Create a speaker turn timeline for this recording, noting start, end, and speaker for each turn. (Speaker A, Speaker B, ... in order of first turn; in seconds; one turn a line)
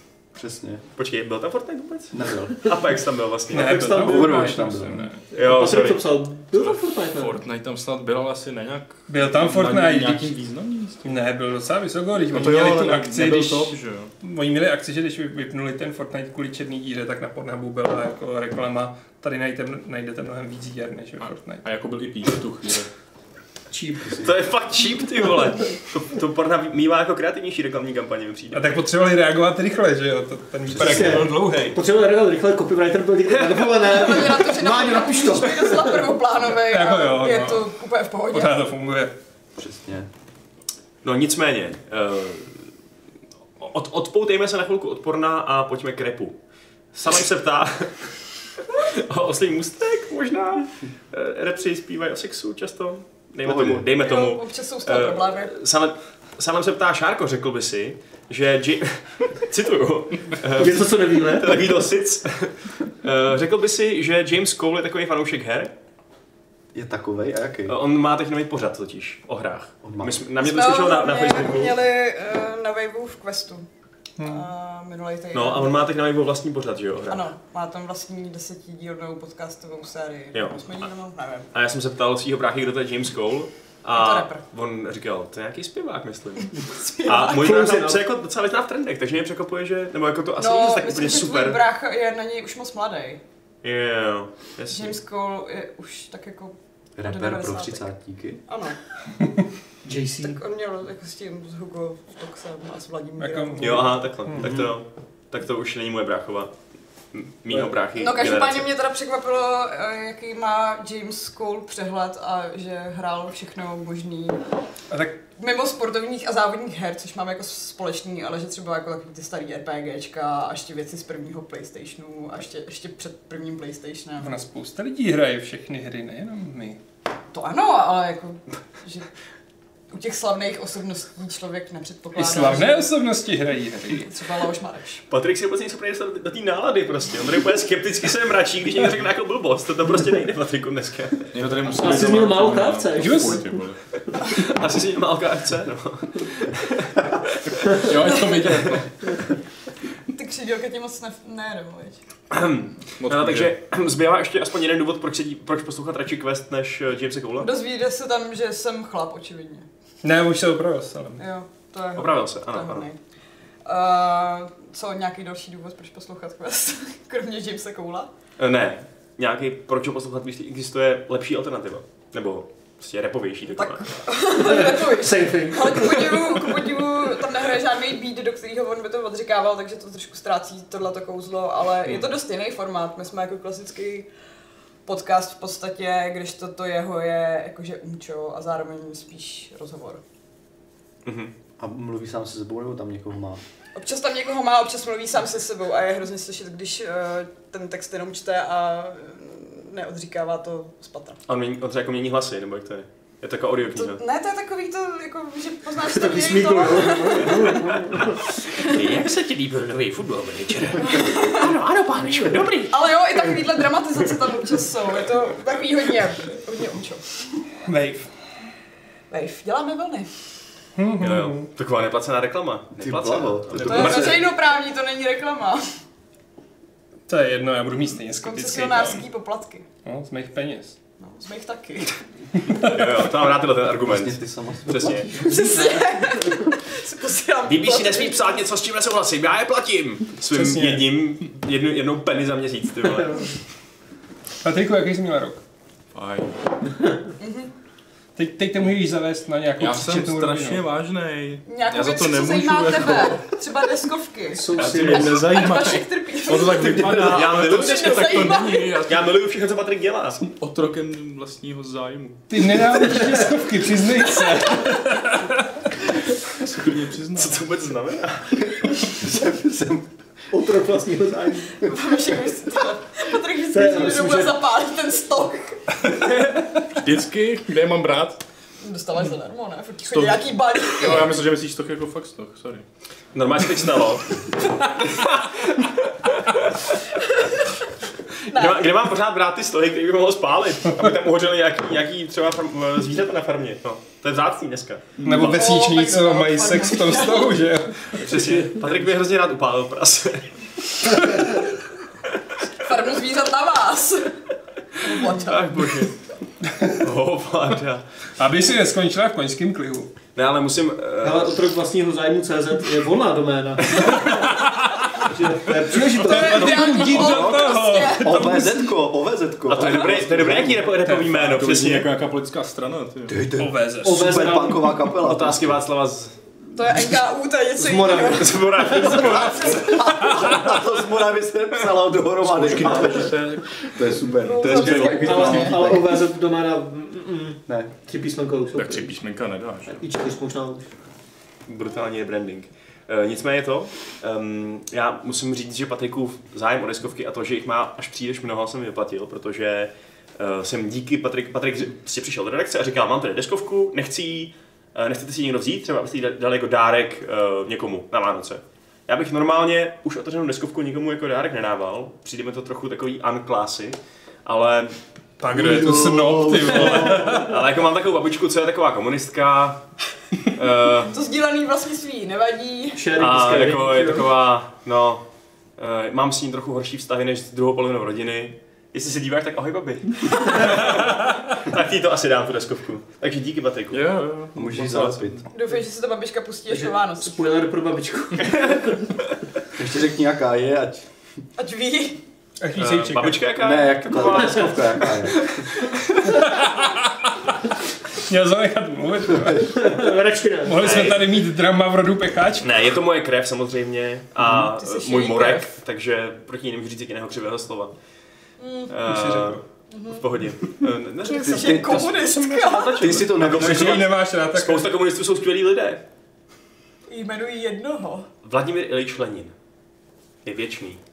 Speaker A: 0.3-0.8
Speaker B: 1.0-3.9
Speaker A: 2.1-2.7
Speaker C: 3.5-5.2
Speaker D: 3.5-4.5
Speaker A: 4.0-5.1
Speaker D: 5.3-7.4
Speaker B: 5.3-6.0
Speaker E: 7.2-11.2
Speaker C: 9.1-10.3
Speaker C: 11.0-21.6
Speaker E: 12.2-14.1
Speaker E: 21.2-22.9
Speaker D: 23.7-24.2
Speaker A: 24.1-24.3
Speaker B: 24.1-28.7
Speaker C: 28.5-31.8
Speaker A: 30.7-31.3
Speaker D: 30.8-36.1
Speaker F: 33.8-38.5
Speaker C: 36.6-37.7
Speaker C: 38.3-39.1
Speaker A: 39.6-40.1
Speaker B: 41.0-42.7
Speaker B: 43.6-46.4
Speaker B: 46.9-65.7
Speaker A: 53.4-53.9
Speaker F: 54.0-55.5
Speaker D: 60.5-61.6
Speaker A: 66.7-67.8
Speaker B: 67.7-71.8
Speaker A: 69.8-70.2
Speaker F: 70.4-73.7
Speaker C: 74.2-74.5
Speaker F: 74.2-75.8
Speaker B: 75.3-77.2
Speaker F: 77.1-81.5
Speaker B: 80.3-80.8
Speaker B: 81.5-91.6
Speaker F: 83.9-84.4
Speaker F: 86.6-87.5
Speaker D: 87.2-88.0
Speaker F: 90.4-93.2
Speaker B: 93.6-95.0
Speaker F: 94.7-97.9
Speaker A: 97.0-98.4
Speaker F: 98.5-98.8
Speaker D: 99.8-100.4
Speaker F: 100.2-104.0
Speaker C: 103.2-104.4
Speaker B: 103.6-106.5
Speaker A: 104.4-104.7
Speaker B: 107.1-108.7
Speaker F: 108.0-114.4
Speaker C: 114.9-115.2
Speaker F: 115.2-124.4
Speaker C: 124.2-126.8
Speaker F: 127.3-129.1
Speaker F: 129.9-132.9
Speaker C: 132.2-134.1
Speaker F: 134.1-135.0
Speaker B: 135.1-141.3
Speaker E: 141.3-143.8
Speaker D: 141.7-143.5
Speaker C: 143.1-143.4
Speaker B: 144.2-147.5
Speaker E: 147.7-149.2
Speaker B: 148.5-148.8
Speaker F: 150.1-152.0
Speaker B: 152.3-157.5
Speaker E: 153.0-153.5
Speaker F: 157.4-159.7
Speaker C: 160.0-161.2
Speaker F: 161.2-163.0
Speaker B: 161.9-162.9
Speaker F: 163.6-168.1
Speaker B: 168.4-173.9
Speaker F: 173.6-184.1
Speaker D: 174.3-176.6
Speaker F: 184.8-190.0
Speaker B: 191.1-191.3
Speaker A: 191.6-193.4
Speaker F: 193.8-201.2
Speaker B: 201.3-204.0
Speaker F: 203.7-208.8
Speaker D: 205.8-208.3
Speaker B: 208.6-213.5
Speaker F: 210.8-211.5
Speaker F: 212.7-217.1
Speaker B: 214.2-214.6
Speaker C: 217.7-218.1
Speaker F: 219.1-220.1
Speaker C: 220.8-221.5
Speaker B: 221.0-224.3
Speaker A: 222.8-224.3
Speaker F: 223.6-225.6
Speaker C: 227.1-229.1
Speaker F: 228.2-229.7
Speaker C: 229.8-230.8
Speaker F: 231.0-232.0
Speaker C: 232.4-232.8
Speaker B: 232.5-235.1
Speaker A: 233.8-235.3
Speaker D: 235.1-236.5
Speaker F: 235.2-238.4
Speaker B: 237.5-243.3
Speaker C: 240.3-240.9
Speaker D: 242.9-243.3
Speaker C: 244.4-245.4
Speaker E: 245.9-246.4
Speaker F: 247.2-247.5
Speaker C: 248.2-250.7
Speaker E: 249.6-253.2
Speaker F: 251.5-258.8
Speaker D: 254.3-255.2
Speaker B: 254.6-255.1
Speaker E: 254.6-259.1
Speaker B: 256.5-260.2
Speaker E: 260.2-262.8
Speaker C: 262.3-265.4
Speaker E: 266.3-267.7
Speaker B: 267.2-268.8
Speaker A: 268.9-269.9
Speaker D: 270.3-271.6
Speaker F: 271.6-275.8
Speaker D: 273.5-274.4
Speaker E: 276.8-278.2
Speaker F: 278.6-281.2
Speaker E: 279.9-282.6
Speaker B: 283.1-286.8
Speaker B: 288.3-295.1
Speaker F: 288.3-288.7
Speaker C: 295.0-298.4
Speaker E: 295.0-295.4
Speaker F: 295.1-297.5
Speaker B: 297.9-301.1
Speaker F: 302.6-304.1
Speaker F: 304.8-305.8
Speaker B: 305.1-305.9
Speaker C: 306.5-306.8
Speaker B: 306.7-307.9
Speaker C: 308.2-309.9
Speaker B: 310.2-311.4
Speaker D: 311.0-314.3
Speaker B: 313.7-314.1
Speaker C: 313.9-315.1
Speaker D: 314.9-316.5
Speaker F: 315.9-318.5
Speaker C: 316.1-318.6
Speaker A: 316.1-320.6
Speaker B: 319.5-321.9
Speaker C: 320.9-321.2
Speaker E: 321.2-323.2
Speaker A: 323.1-325.6
Speaker C: 323.4-324.1
Speaker D: 323.8-324.8
Speaker B: 325.0-326.1
Speaker F: 326.5-329.9
Speaker D: 327.6-329.1
Speaker B: 328.1-329.8
Speaker A: 329.5-335.9
Speaker C: 329.8-330.3
Speaker E: 332.2-333.7
Speaker F: 334.1-335.6
Speaker B: 334.4-335.1
Speaker D: 334.9-339.0
Speaker A: 337.5-337.7
Speaker E: 338.6-339.8
Speaker D: 339.7-340.7
Speaker B: 341.5-364.8
Speaker C: 365.2-367.3
Speaker D: 365.3-367.3
Speaker B: 366.6-369.6
Speaker B: 370.3-370.9
Speaker F: 370.9-372.8
Speaker D: 372.8-374.1
Speaker B: 373.0-375.0
Speaker B: 375.6-383.9
Speaker E: 383.7-385.2
Speaker A: 384.3-385.3
Speaker F: 385.3-387.2
Speaker D: 386.5-388.9
Speaker B: 388.2-388.6
Speaker A: 389.6-390.9
Speaker F: 391.4-392.0
Speaker C: 392.4-393.2
Speaker B: 392.6-396.2
Speaker A: 393.4-395.4
Speaker D: 394.0-395.0
Speaker C: 396.0-397.4
Speaker C: 397.9-399.8
Speaker D: 399.4-400.8
Speaker C: 400.4-402.5
Speaker B: 400.6-401.1
Speaker B: 402.4-407.7
Speaker F: 404.4-405.5
Speaker F: 408.4-408.8
Speaker B: 408.7-415.8
Speaker C: 408.9-409.3
Speaker F: 409.7-410.0
Speaker F: 411.0-413.1
Speaker A: 411.2-412.0
Speaker A: 412.8-413.8
Speaker C: 413.2-414.7
Speaker F: 416.9-418.1
Speaker B: 418.2-419.3
Speaker B: 420.2-420.8